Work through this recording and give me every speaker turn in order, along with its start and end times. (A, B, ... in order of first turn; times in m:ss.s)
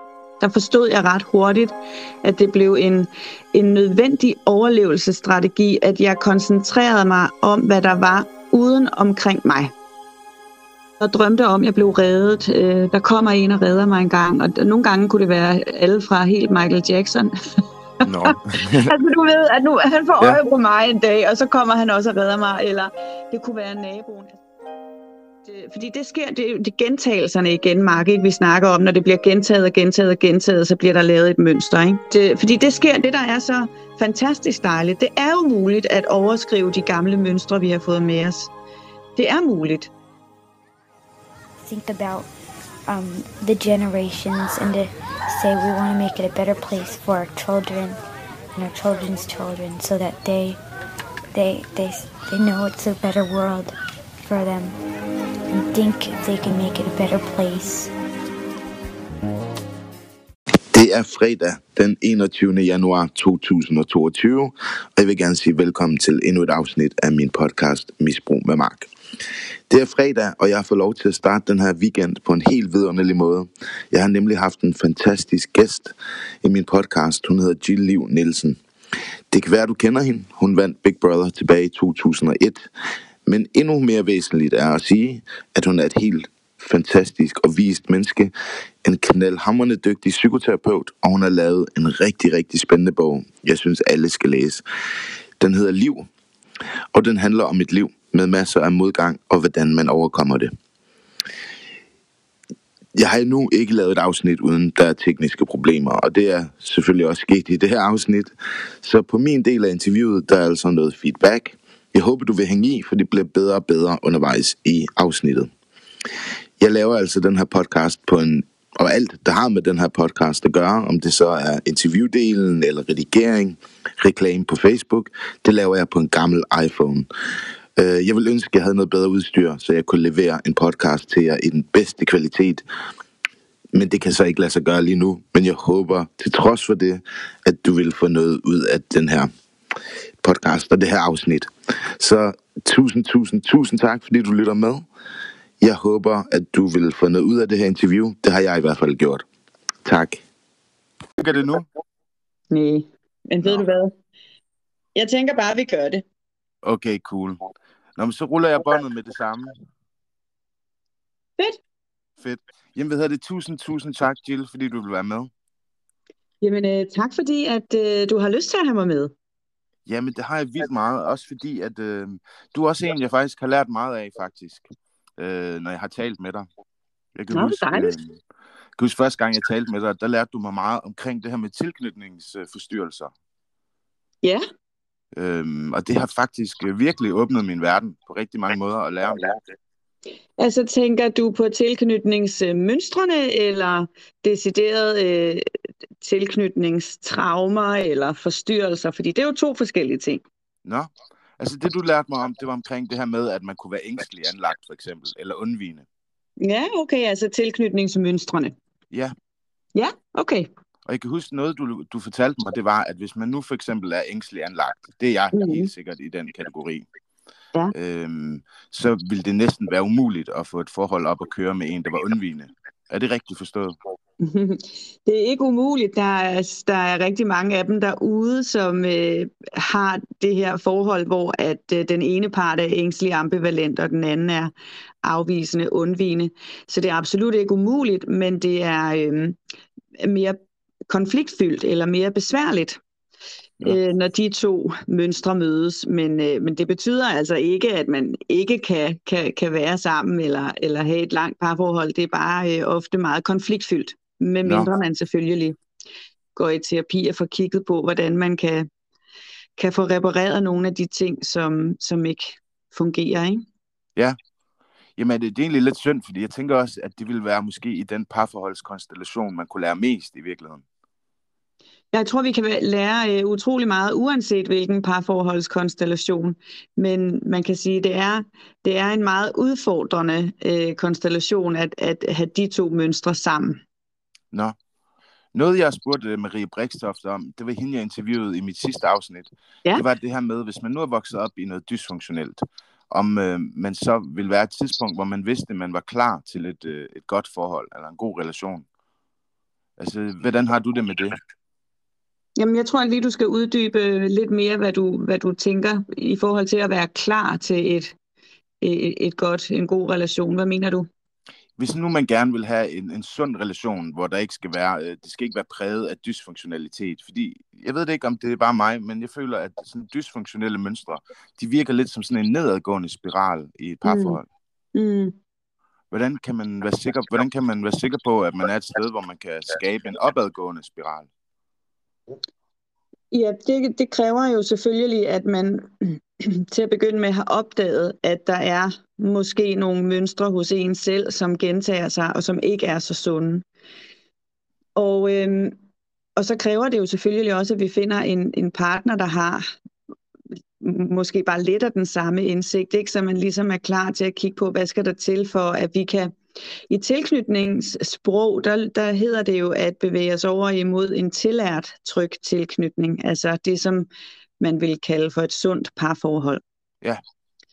0:00.4-0:09.7 A
0:11.0-0:17.3 A
0:18.0-0:18.9 B
0:18.9-0:24.4 A
0:25.4-0:38.5 A
0:39.2-0:39.9 A
0:41.6-0:42.3 C
0:42.9-0:48.0 C
0:48.6-0:50.6 C
0:51.3-0:54.8 C
0:55.5-0:57.9 C
1:00.7-1:08.9 B
1:09.7-1:18.6 B
1:19.3-1:22.7 B
1:23.2-1:28.3 B
1:28.8-1:34.6 B
1:35.4-1:36.1 B
1:36.9-1:40.5 B
1:42.9-1:55.5 B
1:56.6-2:07.1 B
2:07.8-2:12.6 B
2:13.7-2:19.3 B
2:20.2-2:24.9 B
2:25.6-2:29.2 B
2:29.8-2:30.2 B
2:31.2-2:31.6 B
2:32.5-2:33.9 A
2:34.9-2:36.0 A
2:36.6-2:37.4 B
2:38.0-2:39.5 B
2:42.2-2:45.3 B
2:46.4-2:49.1 A
2:49.8-2:54.7 B
2:55.2-2:56.5 B
2:57.1-2:58.2 B
2:57.3-2:57.9 A
2:58.8-3:03.1 B
3:05.1-3:09.4 B
3:10.4-3:15.4 A
3:16.0-3:20.2 A
3:20.6-3:25.8 B
3:26.4-3:28.5 A
3:29.7-3:30.5 A
3:30.8-3:36.9 B
3:35.3-3:35.7 A
3:37.7-3:43.7 B
3:44.2-3:54.5 A
3:55.0-3:59.4 A
4:00.0-4:02.8 A
4:03.6-4:15.6 A
4:16.3-4:18.7 A
4:19.6-4:23.4 A
4:25.0-4:30.6 B
4:31.9-4:43.6 A
4:45.3-4:58.6 B
4:59.8-5:01.2 B
5:02.4-5:07.9 A
5:08.6-5:10.9 A
5:11.6-5:24.3 B
5:23.8-5:24.2 A
5:24.7-5:25.1 A
5:25.9-5:31.1 B
5:33.1-5:43.4 A
5:44.8-5:45.5 A
5:46.2-5:49.4 A
5:50.6-5:56.2 A
5:56.7-6:03.9 A
6:04.4-6:06.4 A